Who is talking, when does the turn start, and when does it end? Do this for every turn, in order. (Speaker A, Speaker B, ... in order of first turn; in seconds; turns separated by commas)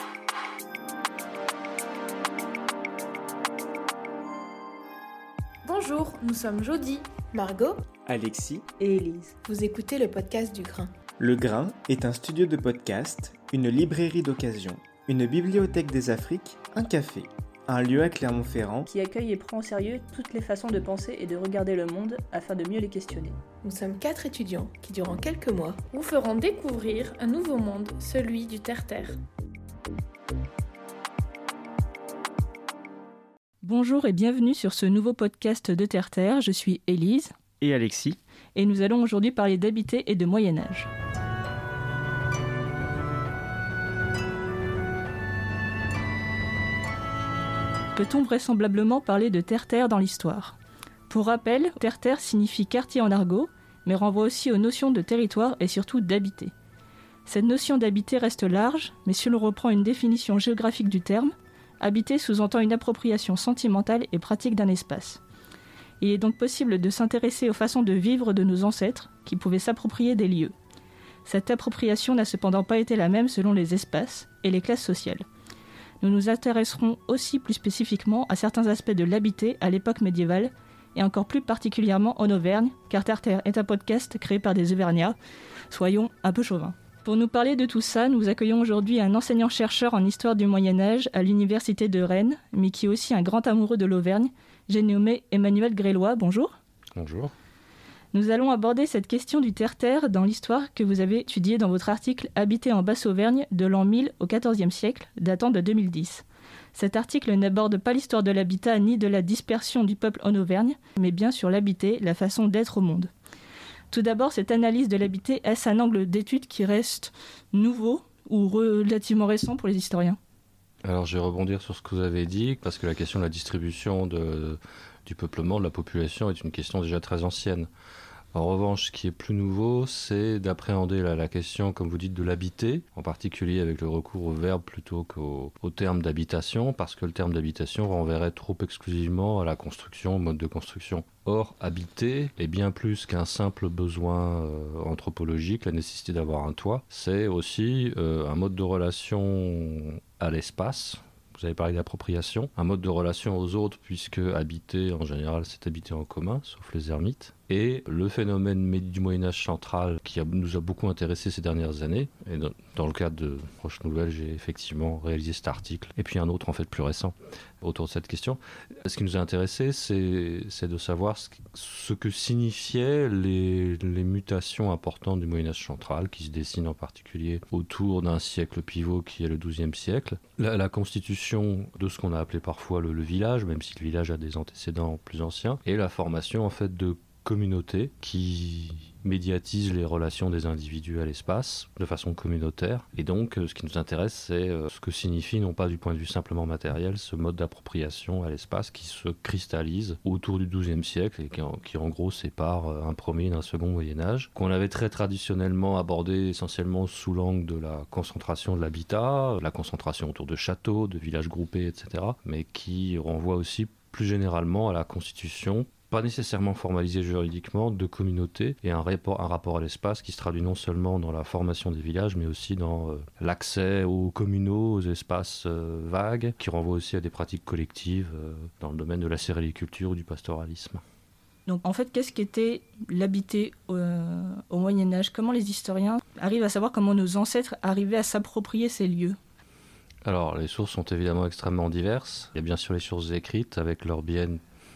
Speaker A: 5.6-7.2, Speaker B: 7.3-7.8, Speaker C: 8.1-8.7, Speaker B: 8.8-10.9, Speaker C: 11.2-18.9, Speaker D: 18.9-23.4, Speaker B: 23.6-25.8, Speaker A: 25.9-29.2, Speaker D: 33.6-37.3, Speaker C: 37.6-38.2, Speaker D: 38.5-40.9, Speaker D: 47.9-50.5, Speaker D: 51.1-56.5, Speaker D: 57.2-65.2, Speaker D: 66.0-70.5, Speaker D: 71.2-75.2, Speaker D: 76.0-85.2, Speaker D: 85.7-96.5, Speaker E: 97.0-97.3, Speaker D: 98.1-113.1, Speaker D: 113.9-120.2, Speaker E: 120.8-127.7, Speaker E: 128.3-230.8, Speaker D: 231.4-239.2, Speaker E: 240.0-244.4